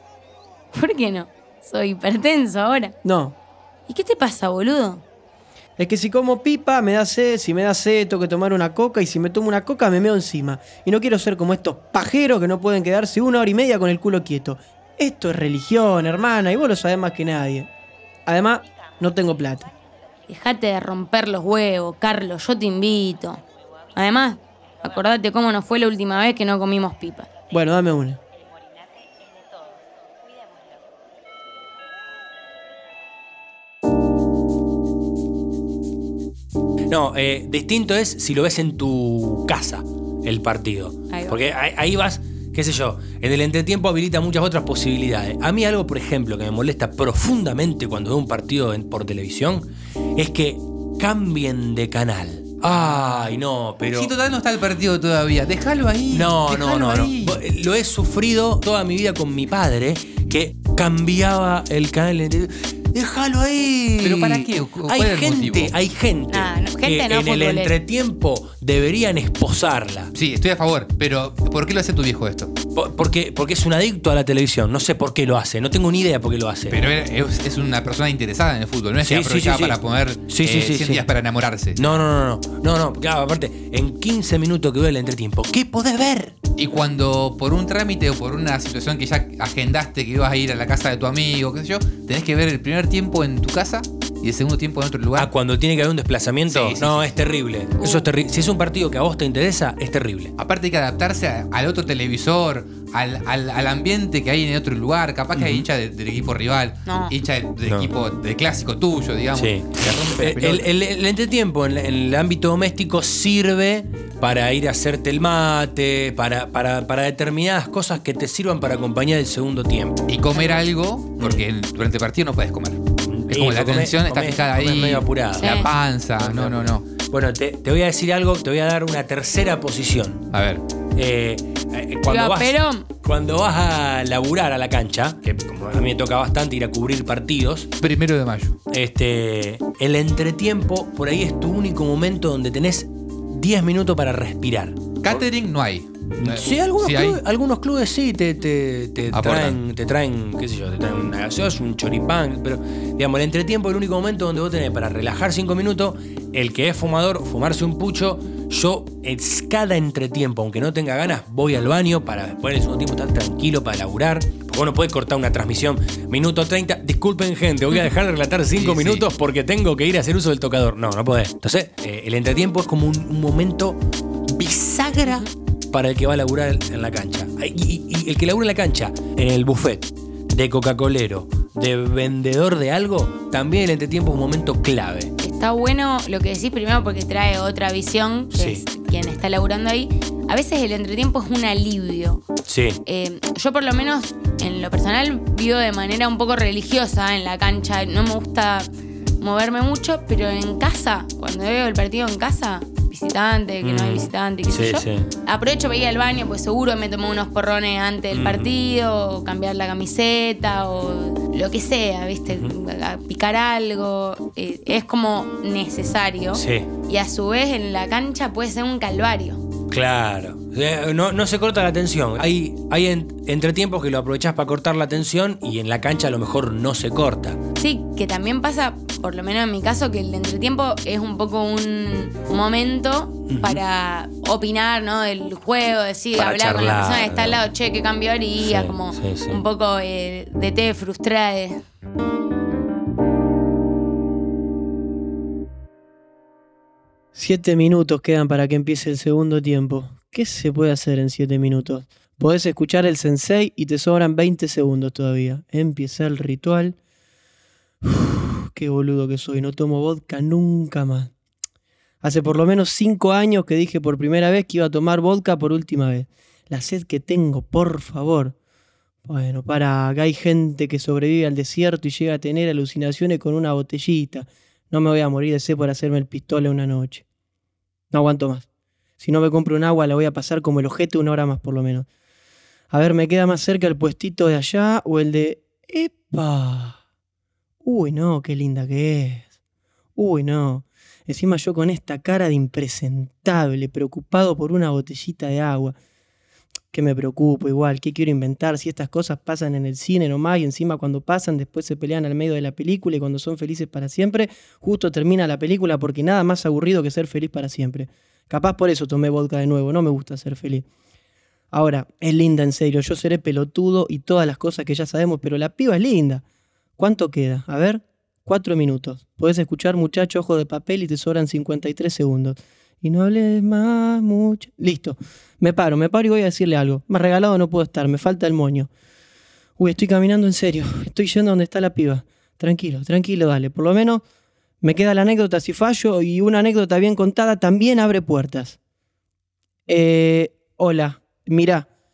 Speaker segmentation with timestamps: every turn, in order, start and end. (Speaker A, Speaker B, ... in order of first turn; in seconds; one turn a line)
Speaker A: 0.7-2.9
Speaker B: 3.0-3.4
Speaker A: 3.9-5.0
Speaker B: 5.8-17.7
Speaker B: 18.2-19.7
Speaker A: 20.3-23.4
Speaker A: 23.9-27.3
Speaker B: 27.5-28.2
Speaker C: 36.9-54.1
Speaker A: 41.1-41.4
Speaker D: 52.6-57.4
Speaker C: 56.1-70.1
Speaker D: 64.0-65.7
Speaker A: 66.3-67.7
Speaker D: 70.1-72.5
Speaker C: 72.7-76.8
Speaker D: 76.7-81.9
Speaker C: 79.0-81.0
Speaker C: 81.8-86.3
Speaker D: 86.6-95.3
Speaker C: 95.2-100.3
Speaker D: 96.5-97.2
Speaker A: 97.8-98.0
Speaker D: 100.4-110.7
Speaker C: 105.3-105.7
Speaker A: 106.8-107.1
Speaker C: 107.6-107.9
Speaker C: 109.3-120.1
Speaker D: 120.1-126.8
Speaker C: 123.1-130.2
Speaker A: 125.4-125.7
Speaker D: 130.3-130.6
Speaker C: 130.9-137.7
Speaker A: 132.1-132.9
Speaker D: 137.8-138.6
Speaker C: 138.7-145.2
Speaker D: 145.0-147.2
Speaker C: 146.2-173.8
Speaker D: 149.1-149.6
Speaker D: 168.5-169.1
Speaker C: 174.3-185.1
Speaker A: 185.2-192.2
Speaker C: 188.3-188.6
Speaker C: 192.5-192.8
Speaker A: 192.8-198.7
Speaker A: 199.2-219.4
Speaker C: 203.6-205.1
Speaker C: 208.1-208.5
Speaker C: 216.3-216.7
Speaker C: 219.7-227.4
Speaker A: 227.6-241.6
Speaker C: 233.3-233.6
Speaker C: 236.2-237.4
Speaker C: 238.4-239.4
Speaker B: 247.1-256.8
Speaker B: 257.8-261.1
Speaker B: 262.0-268.3
Speaker B: 269.1-277.0
Speaker B: 277.9-278.4
Speaker B: 279.0-281.9
Speaker B: 282.7-286.8
Speaker B: 287.6-289.3
Speaker B: 289.9-295.8
Speaker B: 296.7-310.6
Speaker B: 311.5-316.2
Speaker B: 316.8-328.7
Speaker B: 329.6-334.0
Speaker B: 334.6-338.6
Speaker B: 339.7-341.7